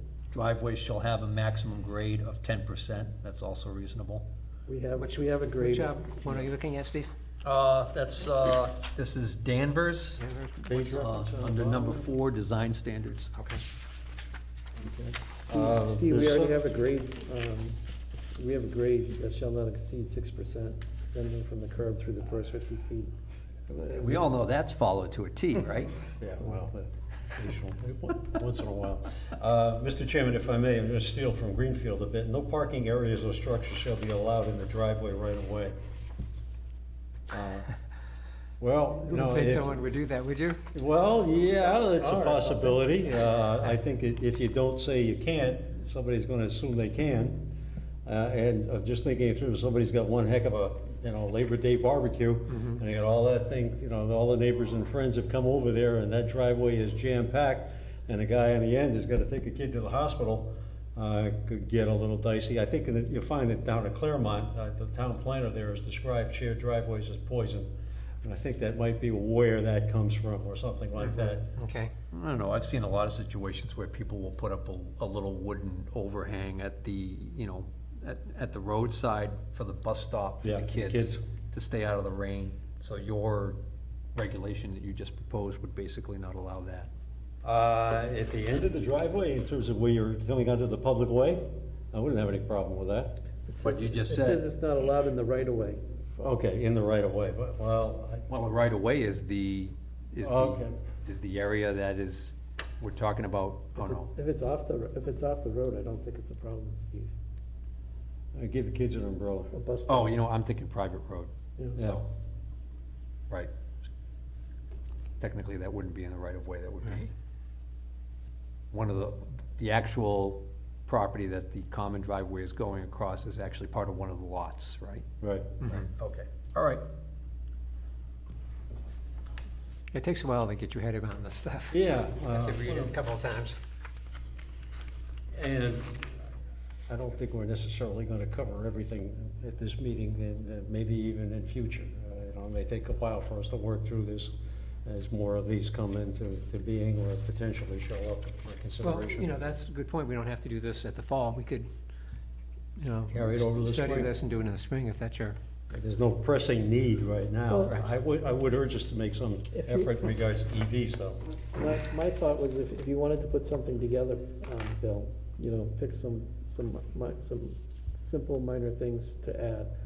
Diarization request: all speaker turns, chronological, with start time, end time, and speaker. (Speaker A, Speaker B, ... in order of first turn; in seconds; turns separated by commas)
Speaker A: 0.3-4.2, Speaker B: 4.7-6.1, Speaker C: 5.0-7.1, Speaker A: 7.4-10.2, Speaker C: 10.2-10.6, Speaker D: 10.6-12.0, Speaker A: 10.8-13.3, Speaker C: 13.3-13.6, Speaker D: 14.8-16.6, Speaker B: 15.5-17.8, Speaker B: 18.3-23.1, Speaker A: 23.7-26.1, Speaker D: 26.2-35.8, Speaker D: 37.3-37.7, Speaker D: 38.6-39.8, Speaker C: 39.1-40.6, Speaker D: 40.7-47.5, Speaker D: 48.0-71.5, Speaker C: 71.0-71.9, Speaker A: 72.1-83.6, Speaker D: 80.4-81.2, Speaker A: 84.1-86.9, Speaker D: 87.4-93.2, Speaker B: 93.5-95.8, Speaker A: 93.6-94.4, Speaker D: 96.2-98.3, Speaker A: 98.3-104.1, Speaker D: 100.2-100.7, Speaker B: 103.7-107.1, Speaker D: 108.3-109.5, Speaker B: 109.5-110.2, Speaker A: 109.8-112.1, Speaker A: 115.2-117.1, Speaker A: 118.7-125.1, Speaker D: 125.2-125.5, Speaker A: 125.6-126.8, Speaker C: 129.9-133.6, Speaker D: 131.7-132.9, Speaker D: 135.3-136.1, Speaker D: 136.9-144.3, Speaker D: 144.8-149.3, Speaker C: 148.8-151.7, Speaker C: 152.8-155.4, Speaker D: 153.1-154.1, Speaker D: 155.7-161.2, Speaker B: 159.5-159.9, Speaker B: 161.5-169.7